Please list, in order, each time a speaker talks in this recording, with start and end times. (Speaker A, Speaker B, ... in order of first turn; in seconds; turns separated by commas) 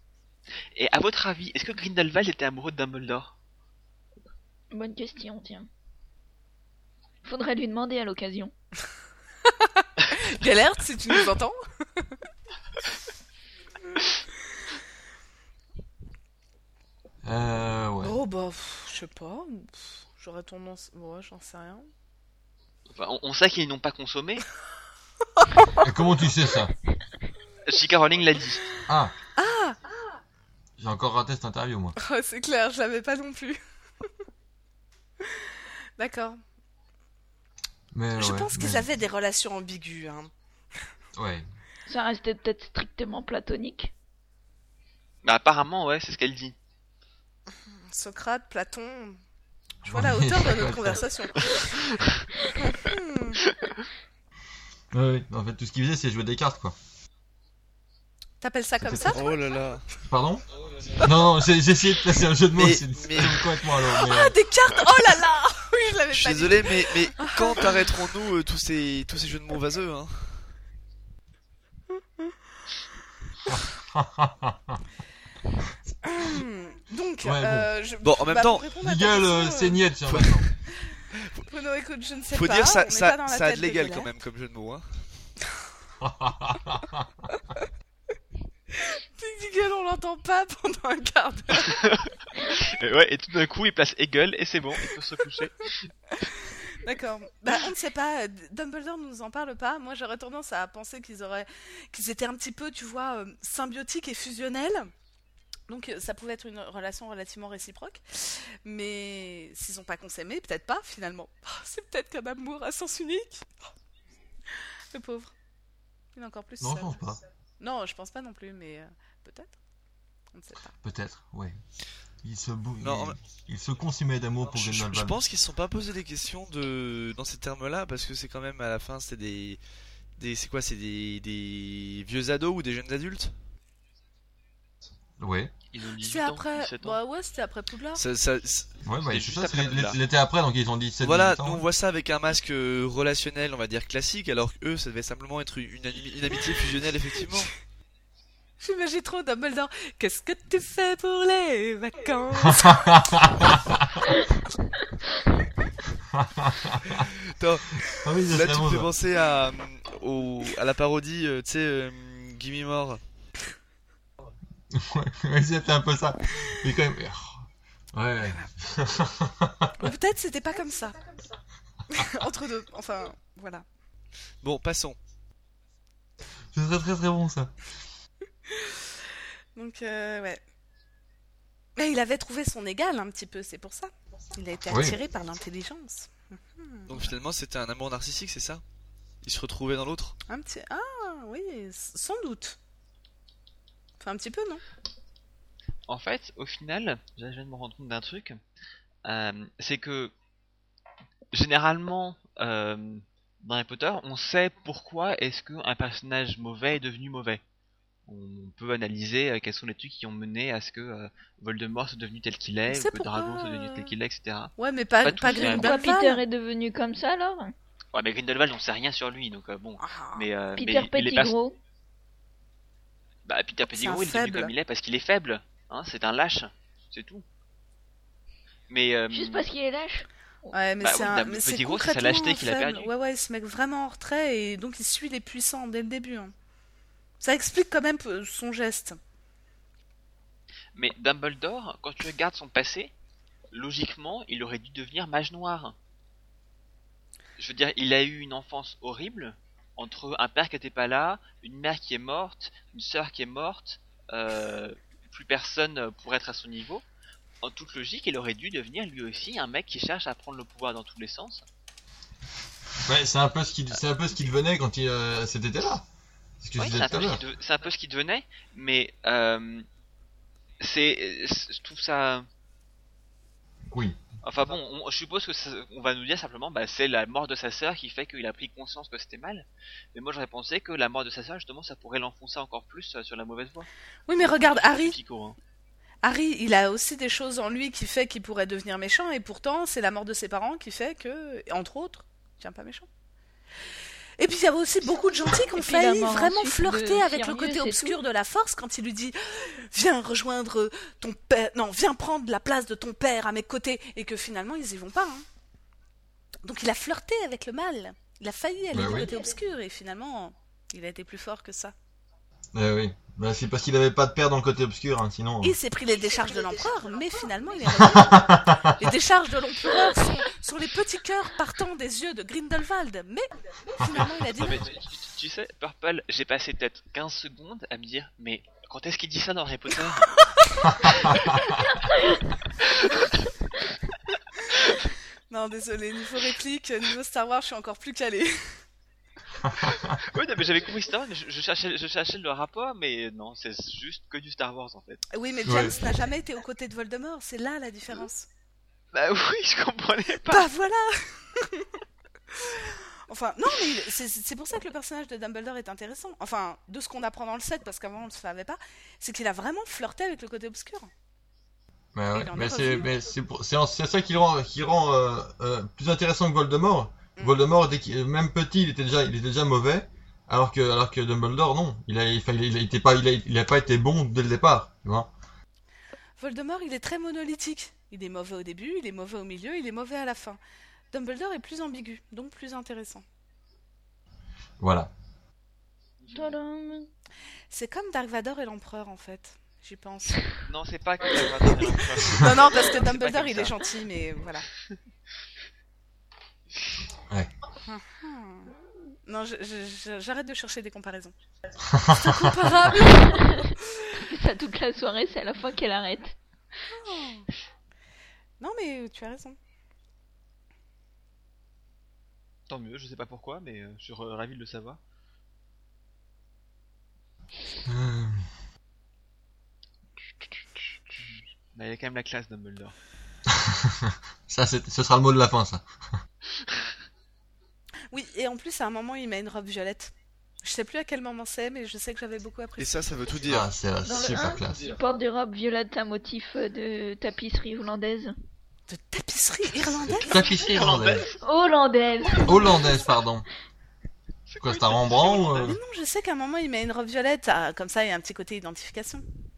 Speaker A: 0.7-3.3, Speaker B: 4.7-5.7, Speaker B: 7.2-8.5, Speaker C: 9.5-12.1, Speaker D: 17.2-18.2, Speaker C: 18.0-21.9, Speaker A: 22.9-24.4, Speaker C: 25.4-25.9, Speaker D: 25.8-26.7, Speaker A: 27.7-28.7, Speaker D: 28.9-29.1, Speaker C: 29.4-29.8, Speaker D: 30.8-31.9, Speaker C: 32.0-33.6, Speaker C: 35.2-36.4, Speaker D: 37.9-38.9, Speaker C: 38.2-40.3, Speaker D: 41.1-41.5, Speaker B: 41.9-43.9, Speaker A: 45.2-46.5, Speaker C: 47.6-49.2, Speaker D: 49.8-51.5, Speaker C: 49.9-51.8, Speaker C: 52.6-53.4, Speaker A: 53.5-53.8, Speaker D: 54.9-56.8, Speaker C: 58.4-59.2, Speaker D: 58.9-59.1, Speaker E: 59.0-59.9, Speaker D: 60.1-64.3, Speaker E: 62.6-63.5, Speaker C: 63.9-67.9, Speaker E: 66.1-70.5, Speaker D: 73.5-74.8, Speaker C: 76.0-79.8, Speaker D: 77.2-77.7, Speaker E: 78.0-78.8, Speaker D: 78.8-80.5, Speaker E: 80.1-80.6, Speaker E: 81.2-81.5, Speaker C: 81.5-84.1, Speaker E: 82.3-85.3, Speaker D: 86.0-87.1, Speaker C: 88.8-91.8, Speaker A: 91.7-95.9, Speaker C: 96.2-104.9, Speaker C: 105.7-113.5, Speaker C: 114.9-115.3, Speaker C: 116.1-117.0, Speaker D: 116.6-117.2, Speaker C: 117.6-119.5, Speaker C: 120.3-120.7, Speaker D: 120.8-121.6, Speaker D: 122.2-125.2, Speaker E: 122.8-123.2, Speaker E: 124.5-129.6, Speaker E: 130.2-133.3, Speaker D: 135.2-135.5, Speaker A: 135.7-137.0, Speaker C: 136.0-138.0, Speaker E: 137.9-138.8, Speaker D: 138.8-141.6, Speaker A: 139.1-140.0, Speaker E: 141.0-147.5, Speaker C: 148.6-152.9, Speaker D: 152.4-154.0, Speaker D: 156.1-157.1, Speaker E: 157.0-163.0, Speaker D: 157.9-158.9, Speaker D: 164.7-169.9, Speaker C: 169.8-171.0, Speaker C: 171.9-173.6, Speaker E: 174.4-175.0, Speaker D: 176.5-177.5, Speaker C: 178.5-178.8, Speaker C: 179.6-180.4, Speaker C: 181.8-187.1, Speaker D: 184.7-185.0, Speaker E: 186.9-188.6, Speaker E: 189.2-190.2, Speaker C: 190.3-192.6, Speaker C: 194.0-194.6, Speaker A: 195.9-198.4, Speaker A: 199.1-200.1, Speaker A: 201.3-207.4, Speaker A: 208.1-214.5, Speaker C: 212.7-213.9, Speaker C: 214.6-216.2, Speaker A: 215.0-215.8, Speaker B: 215.3-217.5, Speaker A: 217.9-221.3, Speaker C: 219.8-220.3, Speaker B: 220.6-221.6, Speaker A: 223.3-227.2, Speaker C: 223.7-224.5, Speaker A: 228.7-229.4, Speaker B: 229.1-230.5, Speaker C: 230.5-236.3, Speaker A: 230.8-232.9, Speaker C: 237.2-239.0, Speaker A: 240.7-242.9, Speaker A: 243.5-245.7, Speaker A: 247.4-256.8, Speaker A: 257.4-261.4, Speaker D: 262.9-265.9, Speaker D: 266.4-267.2, Speaker A: 266.6-269.7, Speaker A: 270.6-272.3, Speaker D: 273.7-274.0, Speaker A: 274.2-285.4, Speaker C: 284.1-285.0, Speaker C: 286.0-292.9, Speaker C: 294.2-305.2, Speaker B: 295.5-298.0, Speaker C: 306.4-311.7, Speaker D: 308.7-309.1, Speaker D: 312.5-315.6, Speaker C: 315.4-324.7, Speaker D: 317.7-318.8, Speaker A: 324.4-330.3, Speaker C: 330.4-330.6, Speaker D: 330.8-331.2, Speaker A: 331.0-331.3, Speaker A: 332.6-333.1, Speaker C: 335.3-338.6, Speaker D: 339.6-339.9, Speaker A: 339.6-345.1, Speaker C: 345.1-348.3, Speaker D: 345.4-345.8, Speaker A: 348.9-350.5, Speaker C: 350.3-351.7, Speaker C: 352.4-360.9, Speaker D: 361.9-375.1, Speaker C: 362.1-362.9, Speaker C: 376.2-380.4, Speaker C: 380.9-383.1, Speaker D: 384.6-384.9, Speaker A: 386.0-386.4, Speaker B: 386.1-386.9, Speaker C: 387.5-390.2, Speaker A: 390.4-393.6, Speaker C: 392.0-394.4, Speaker C: 397.6-398.5, Speaker C: 399.1-401.2, Speaker D: 401.7-402.4, Speaker C: 401.8-403.9, Speaker B: 403.1-406.1, Speaker C: 406.7-407.3, Speaker C: 408.4-409.4, Speaker A: 412.5-414.8, Speaker D: 417.6-418.3, Speaker A: 421.0-422.7, Speaker D: 423.3-425.6, Speaker A: 426.4-426.7, Speaker C: 427.9-432.9, Speaker E: 432.6-433.5, Speaker D: 433.3-434.7, Speaker B: 433.8-438.2, Speaker C: 438.7-440.2, Speaker D: 439.6-441.1, Speaker A: 440.2-441.2, Speaker B: 441.2-442.7, Speaker D: 442.2-443.3, Speaker A: 444.3-445.6, Speaker D: 444.4-445.6, Speaker C: 445.4-449.0